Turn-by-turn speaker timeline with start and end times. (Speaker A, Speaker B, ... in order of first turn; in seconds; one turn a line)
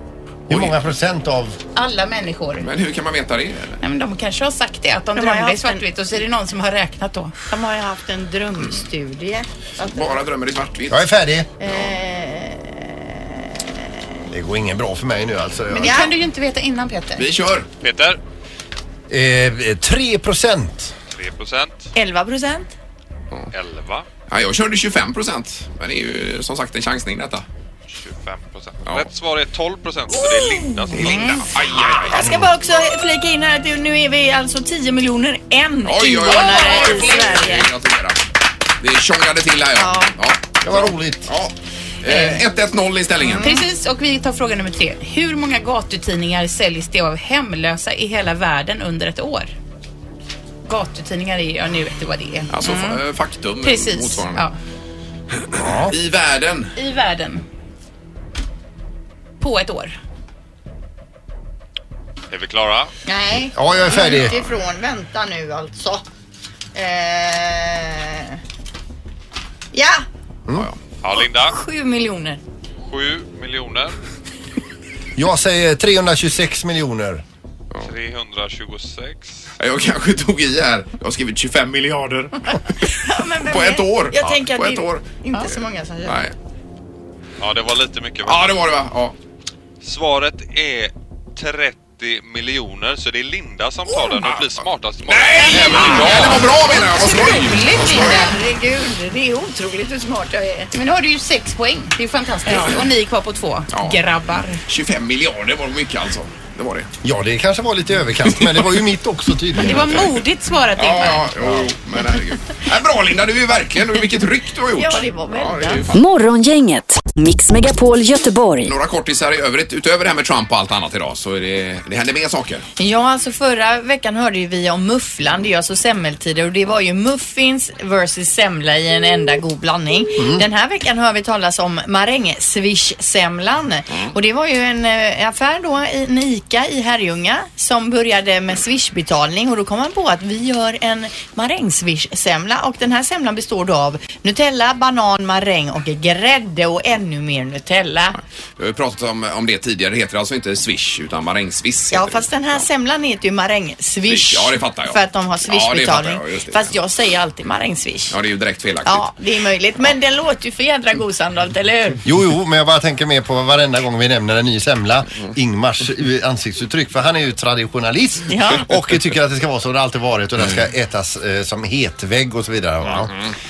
Speaker A: 0.5-0.8
Speaker B: 0.5-1.6
Speaker C: 1.8-2.7
Speaker A: 2.6-3.8
Speaker C: 3.8-7.3
Speaker D: 5.2-5.8
Speaker D: 7.5-10.2
Speaker A: 9.9-11.1
Speaker B: 10.9-11.5
Speaker D: 11.6-14.0
Speaker B: 14.3-16.0
Speaker C: 15.7-17.3
Speaker D: 15.8-16.1
Speaker A: 17.2-17.7
Speaker E: 17.8-18.2
Speaker B: 19.1-20.9
Speaker E: 21.1-21.9
Speaker D: 21.9-22.7
Speaker E: 23.5-24.1
Speaker A: 24.3-27.4
Speaker E: 27.9-31.5
Speaker A: 30.9-32.3
Speaker D: 30.9-31.4
Speaker B: 32.0-32.5
Speaker D: 32.1-37.7
Speaker A: 35.9-38.2
Speaker C: 36.2-37.5
Speaker A: 38.8-43.5
Speaker D: 39.8-40.1
Speaker B: 40.6-41.3
Speaker D: 42.1-42.4
Speaker D: 43.2-43.6
Speaker C: 43.4-49.5
Speaker C: 50.7-53.0
Speaker A: 52.5-54.5
Speaker C: 53.6-54.5
Speaker B: 55.5-55.9
Speaker A: 55.5-56.8
Speaker C: 56.8-57.5
Speaker C: 59.4-60.0
Speaker E: 62.3-62.9
Speaker D: 63.1-66.0
Speaker B: 63.5-64.4
Speaker D: 66.7-68.4
Speaker D: 69.7-70.0
Speaker E: 71.0-71.6
Speaker D: 71.1-72.4
Speaker E: 72.8-74.0
Speaker B: 75.2-77.2
Speaker E: 77.8-79.4
Speaker A: 79.6-82.7
Speaker D: 82.5-86.2
Speaker A: 83.5-86.3
Speaker E: 87.4-88.6
Speaker A: 88.2-89.2
Speaker E: 89.8-96.7
Speaker A: 93.9-98.3
Speaker C: 96.8-98.4
Speaker D: 97.8-100.7
Speaker C: 100.7-104.6
Speaker A: 102.5-102.9
Speaker A: 103.7-104.0
Speaker A: 104.7-106.9
Speaker B: 107.0-110.1
Speaker A: 108.4-108.6
Speaker C: 109.6-111.4
Speaker A: 109.7-110.2
Speaker A: 110.8-116.0
Speaker D: 114.8-115.8
Speaker F: 115.9-118.8
Speaker A: 118.6-122.7
Speaker D: 122.8-148.2
Speaker A: 148.2-152.6
Speaker D: 151.9-158.2
Speaker A: 154.1-156.8
Speaker A: 158.1-159.1
Speaker D: 158.9-162.0
Speaker B: 162.1-173.1
Speaker D: 168.3-168.7
Speaker A: 172.8-173.3